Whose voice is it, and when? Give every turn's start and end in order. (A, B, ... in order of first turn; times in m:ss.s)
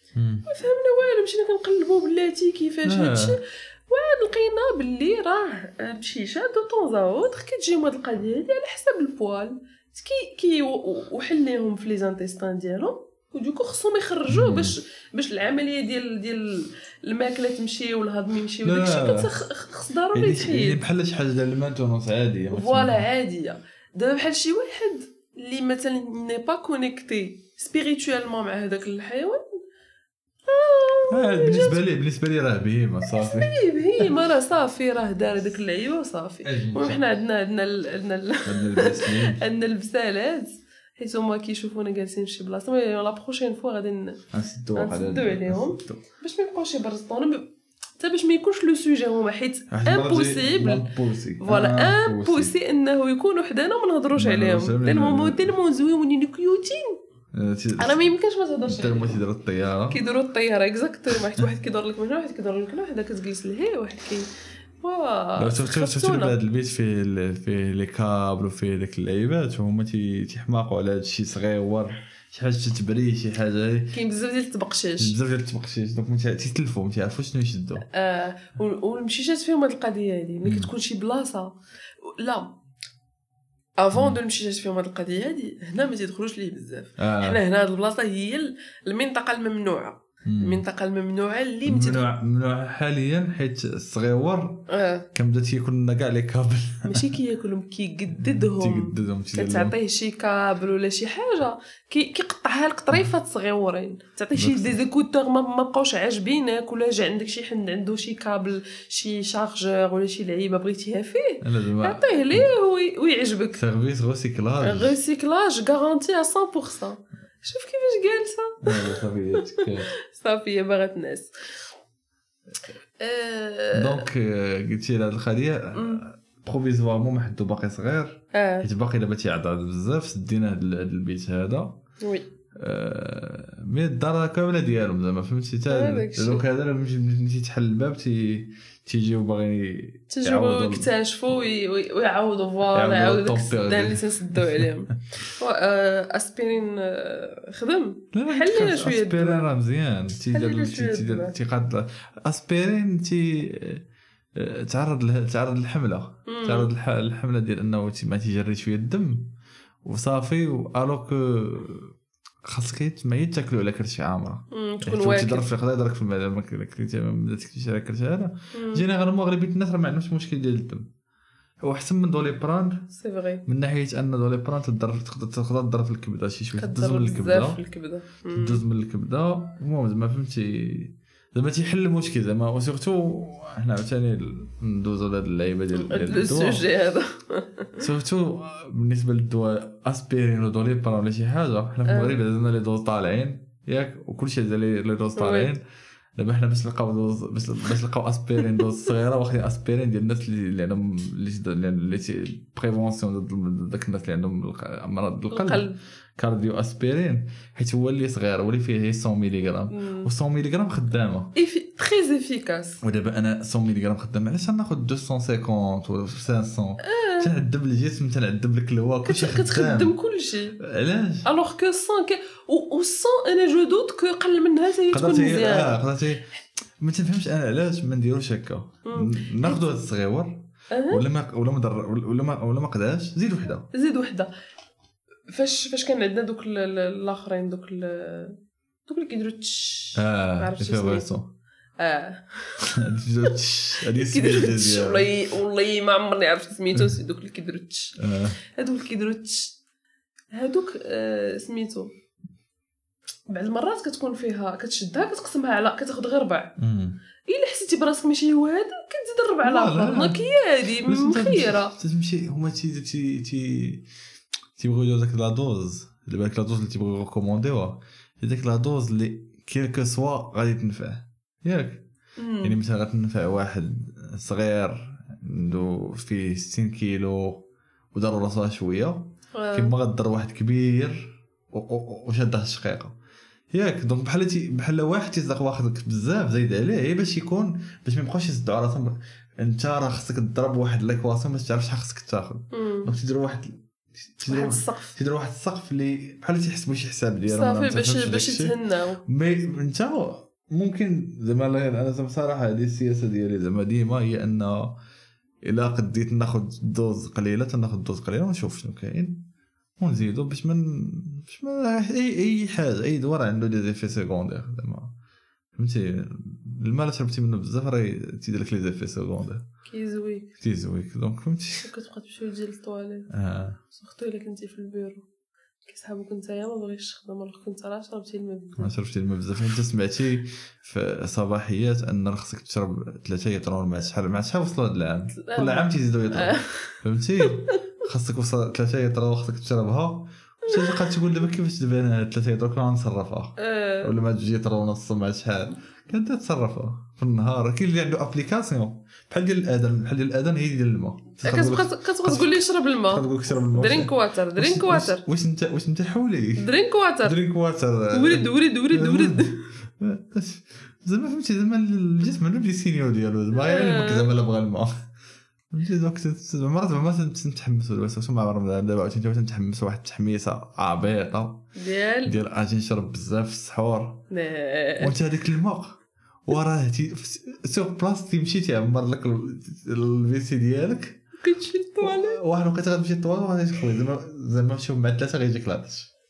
0:00.2-0:00.5 A
0:00.5-0:20.8 B
0:02.8-0:03.4 A
0:14.3-0:14.8 A
0:18.6-0:19.3 A
0:20.1-0:23.1 A
0:22.5-0:29.4 B
0:30.5-0:31.8 B
0:31.1-0:34.1 A
0:33.1-0:44.2 B
0:36.4-0:37.0 A
0:38.5-0:39.4 A
0:44.3-0:46.0 A
0:44.8-0:50.9 B
0:49.7-0:52.5 A
0:51.4-0:57.0 B
0:54.2-0:55.5 A
0:57.3-0:58.1 A
0:57.8-0:59.2 B
0:58.7-1:00.0 A
0:59.9-1:04.3 B
1:01.2-1:01.5 A
1:04.8-1:06.4 B
1:05.4-1:14.0 A
1:13.9-1:15.2 B
1:15.0-1:17.9 A
1:17.9-1:22.5 B
1:20.4-1:20.7 A
1:23.8-1:32.0 B
1:27.0-1:27.4 A
1:30.2-1:30.6 A
1:31.6-1:37.1 A
1:34.7-1:35.1 B
1:36.9-1:53.6 B
1:38.1-1:39.8 A
1:44.3-1:44.8 A
1:51.4-1:52.5 A
1:53.6-1:55.0 A
1:54.6-2:01.3 B
1:58.6-1:59.9 A
2:03.0-2:04.1 B
2:03.7-2:11.8 A
2:05.8-2:06.0 B
2:08.3-2:08.7 B
2:12.6-2:20.9 A
2:15.7-2:16.4 B
2:20.1-2:29.5 B
2:22.7-2:24.9 A
2:28.1-2:33.8 A
2:30.3-2:31.4 B
2:34.4-2:39.3 A
2:36.3-2:36.7 B
2:39.8-2:41.9 A
2:42.4-2:50.9 A
2:44.5-2:45.5 B
2:48.5-2:48.8 B
2:51.6-2:52.8 A
2:52.9-2:53.4 B
2:53.4-2:57.6 A
2:56.6-2:58.6 B
2:58.3-3:06.7 A
3:05.7-3:07.8 B
3:07.8-3:15.6 A
3:11.9-3:12.2 B
3:15.2-3:15.5 B
3:16.2-3:31.3 A
3:25.3-3:25.8 B
3:29.7-3:30.1 B
3:31.4-3:32.8 B
3:32.8-3:40.0 A
3:36.8-3:37.3 B
3:39.1-3:40.6 B
3:40.6-3:41.3 A
3:41.2-3:45.8 B
3:44.9-3:53.7 A
3:48.9-3:49.6 B
3:50.7-3:51.0 B
3:53.7-3:54.3 B
3:55.3-4:01.1 B
4:00.0-4:01.3 A
4:01.8-4:09.6 B
4:02.6-4:05.1 A
4:08.0-4:08.4 A
4:10.3-4:11.9 B
4:13.3-4:16.5 B
4:16.6-4:17.0 A
4:17.3-4:21.8 B
4:19.4-4:20.2 A
4:20.8-4:23.9 A
4:24.6-4:31.8 A
4:32.2-4:32.6 B
4:32.4-4:42.9 A
4:39.4-4:39.7 B
4:43.5-5:04.8 A
4:52.5-4:52.9 B
4:54.3-4:55.0 B
4:57.3-4:59.0 B
5:05.4-5:09.2 A
5:09.8-5:14.9 A
5:15.6-5:19.4 A
5:19.7-5:20.3 B
5:20.4-5:21.7 A
5:21.6-5:23.1 B
5:23.1-5:23.6 A
5:23.7-5:25.1 B
5:25.7-5:28.7 B
5:28.6-5:56.5 A
5:35.2-5:37.6 B
5:40.5-5:40.9 B
5:43.4-5:43.9 B
5:51.2-5:55.0 B
5:56.4-5:57.2 B
5:57.0-6:04.7 A
5:57.9-5:59.4 B
6:03.3-6:04.1 B
6:05.5-6:11.4 A
6:11.6-6:12.2 B
6:12.0-6:14.0 A
6:14.1-6:15.0 B
6:14.8-6:21.0 A
6:21.2-6:22.2 B
6:21.8-6:25.9 A